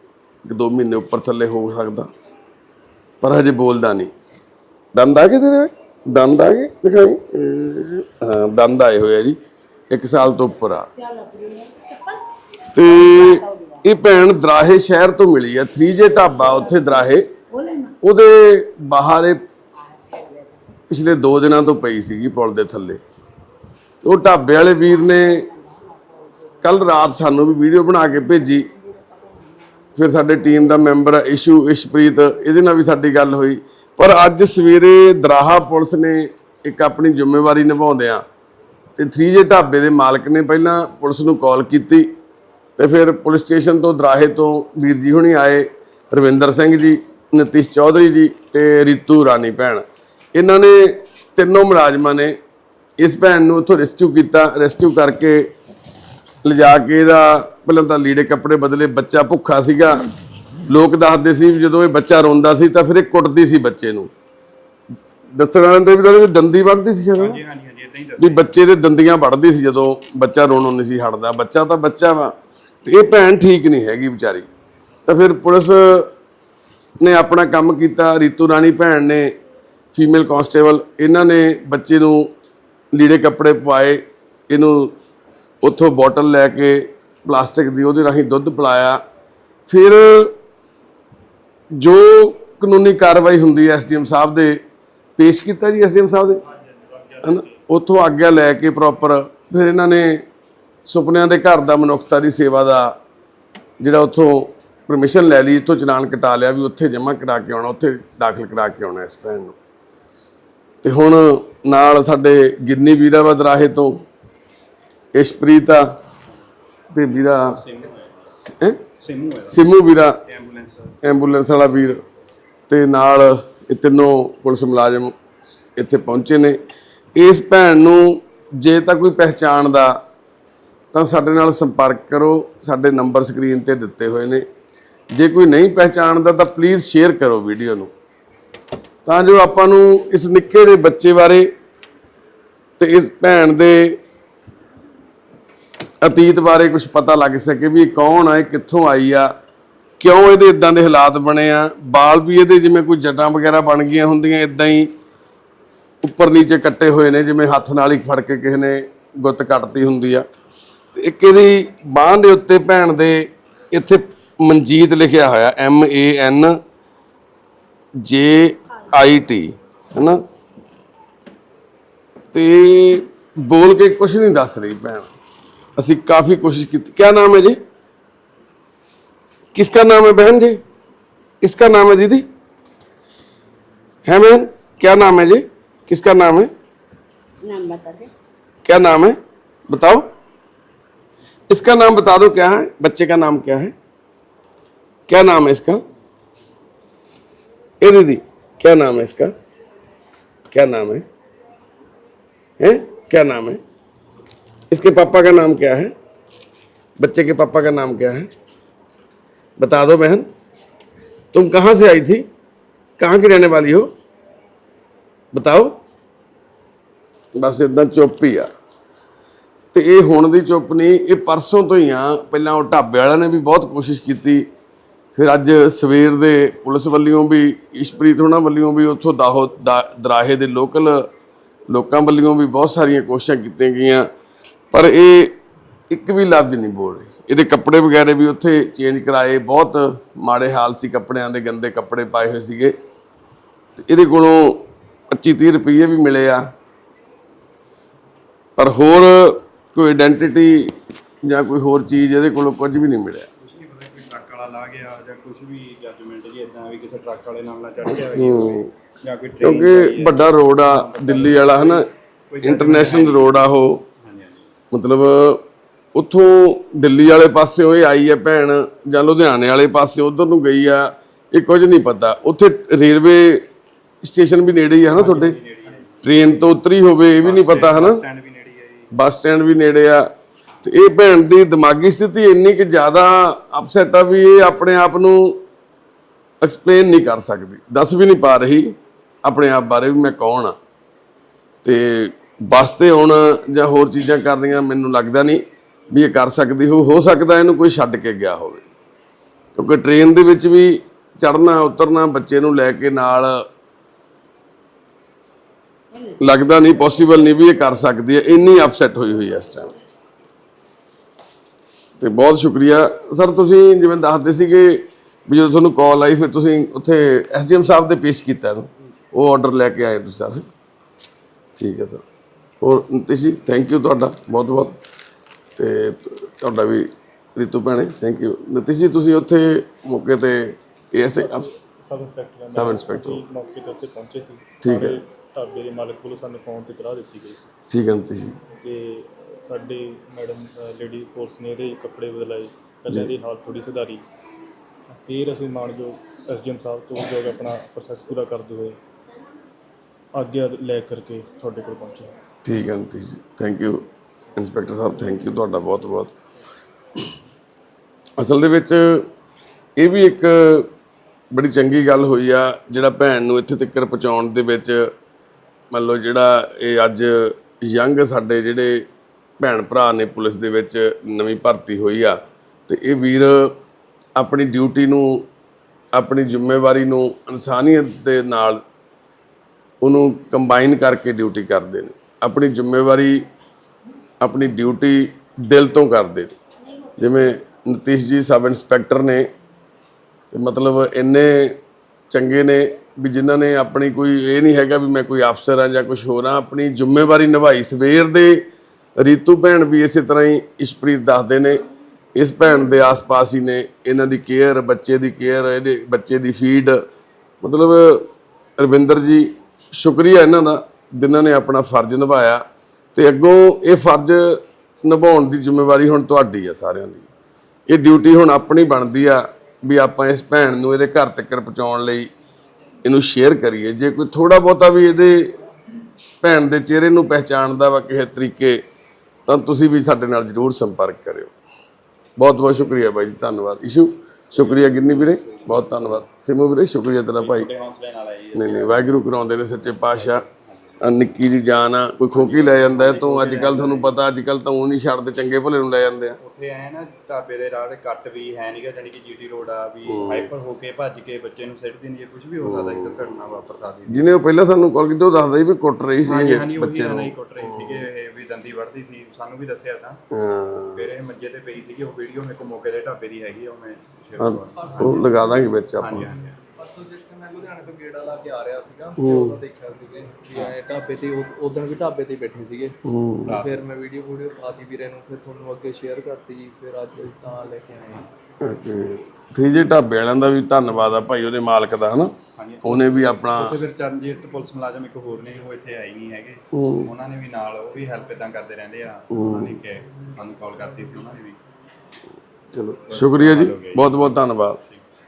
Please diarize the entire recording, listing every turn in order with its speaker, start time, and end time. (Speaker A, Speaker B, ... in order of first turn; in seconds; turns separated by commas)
Speaker A: 0.4-2.1, Speaker A: 3.2-4.1, Speaker A: 4.9-9.4, Speaker A: 9.9-10.9, Speaker B: 11.2-12.2, Speaker A: 12.7-17.3, Speaker B: 12.8-13.8, Speaker A: 18.0-19.4, Speaker B: 20.0-20.4, Speaker A: 20.9-23.0, Speaker A: 24.0-25.5, Speaker A: 26.6-28.7, Speaker A: 29.9-38.2, Speaker A: 39.0-42.1, Speaker A: 42.8-52.4, Speaker A: 53.0-55.5, Speaker A: 56.4-60.1, Speaker A: 60.7-64.1, Speaker A: 65.3-67.4, Speaker C: 67.2-68.5, Speaker A: 68.2-74.5, Speaker A: 75.0-76.1, Speaker A: 77.0-79.3, Speaker A: 79.9-82.3, Speaker A: 82.9-84.9, Speaker A: 85.6-89.0, Speaker A: 89.7-90.3, Speaker A: 91.8-94.6, Speaker A: 95.2-96.4, Speaker D: 96.5-97.6, Speaker A: 97.2-100.2, Speaker A: 100.8-103.0, Speaker A: 103.8-109.6, Speaker A: 110.8-114.0, Speaker A: 115.2-115.9, Speaker A: 116.9-117.6, Speaker C: 117.5-118.3, Speaker A: 118.3-118.8, Speaker C: 119.0-119.6, Speaker A: 119.5-120.2, Speaker C: 120.2-121.0, Speaker A: 121.0-122.0, Speaker A: 122.7-125.1, Speaker A: 125.8-126.6, Speaker A: 127.2-130.0, Speaker A: 130.9-134.4, Speaker A: 135.1-137.9, Speaker A: 139.0-141.5, Speaker A: 142.8-144.0, Speaker A: 146.0-149.3, Speaker A: 150.0-154.9, Speaker A: 156.0-160.2, Speaker A: 160.9-166.6, Speaker A: 168.0-170.2, Speaker A: 172.3-175.1, Speaker A: 175.8-177.6, Speaker A: 179.5-180.6, Speaker A: 181.4-182.2, Speaker A: 184.1-186.5, Speaker B: 187.4-188.1, Speaker A: 188.6-189.2, Speaker A: 189.7-190.1, Speaker A: 191.5-193.7, Speaker A: 195.1-195.8, Speaker A: 197.8-199.3, Speaker A: 200.5-201.0, Speaker A: 202.6-203.6, Speaker A: 204.7-205.9, Speaker A: 207.0-208.3, Speaker A: 209.6-210.2, Speaker A: 211.3-212.2, Speaker A: 213.0-213.9, Speaker A: 215.3-215.7, Speaker A: 217.4-218.5, Speaker A: 219.7-224.4, Speaker A: 225.2-231.1, Speaker A: 231.7-234.1, Speaker A: 234.7-235.3, Speaker A: 235.9-242.7, Speaker A: 243.8-246.4, Speaker A: 248.6-253.3, Speaker C: 253.4-263.5, Speaker A: 257.9-258.7, Speaker A: 259.4-261.9, Speaker A: 262.4-263.8, Speaker C: 264.0-264.5, Speaker A: 264.7-265.4, Speaker A: 265.9-273.4, Speaker A: 274.0-275.4, Speaker C: 274.9-276.2, Speaker A: 276.0-278.0, Speaker C: 277.2-278.9, Speaker A: 278.9-280.1, Speaker A: 280.6-285.4, Speaker A: 286.4-290.6, Speaker A: 291.6-298.6, Speaker A: 299.6-303.4, Speaker A: 306.1-309.7, Speaker A: 312.0-320.4, Speaker A: 321.6-322.0, Speaker A: 322.6-324.8, Speaker A: 325.6-331.4, Speaker D: 331.1-337.5, Speaker A: 332.5-333.2, Speaker A: 334.6-335.0, Speaker A: 337.7-338.4, Speaker D: 338.6-344.0, Speaker D: 345.0-348.8, Speaker D: 350.1-352.1, Speaker A: 352.4-356.1, Speaker A: 358.2-359.1, Speaker A: 359.8-360.7, Speaker A: 361.3-364.9, Speaker A: 365.7-368.9, Speaker A: 369.4-373.6, Speaker A: 374.2-375.3, Speaker A: 375.9-378.6, Speaker A: 379.8-383.2, Speaker A: 384.2-386.4, Speaker A: 387.0-389.3, Speaker A: 390.3-391.6, Speaker A: 392.1-398.4, Speaker A: 399.0-401.6, Speaker A: 402.1-406.8, Speaker A: 407.4-417.1, Speaker A: 417.7-422.1, Speaker A: 422.8-425.3, Speaker A: 426.2-428.6, Speaker A: 429.3-431.3, Speaker A: 432.2-437.5, Speaker C: 434.4-435.6, Speaker C: 437.2-439.0, Speaker A: 438.3-440.2, Speaker C: 439.8-440.8, Speaker A: 440.8-446.2, Speaker C: 442.1-444.0, Speaker C: 446.2-454.1, Speaker A: 449.9-450.3, Speaker A: 452.4-452.9, Speaker A: 453.9-457.8, Speaker C: 456.0-460.0, Speaker A: 460.1-460.9, Speaker C: 460.7-465.1, Speaker A: 464.2-466.1, Speaker E: 464.6-465.4, Speaker C: 465.8-466.4, Speaker E: 466.6-472.8, Speaker A: 468.9-469.4, Speaker A: 472.8-473.4, Speaker C: 473.2-473.6, Speaker E: 473.3-478.0, Speaker A: 478.4-483.6, Speaker C: 482.4-491.4, Speaker A: 486.5-486.9, Speaker A: 489.1-489.5, Speaker A: 492.5-494.6, Speaker C: 492.9-494.1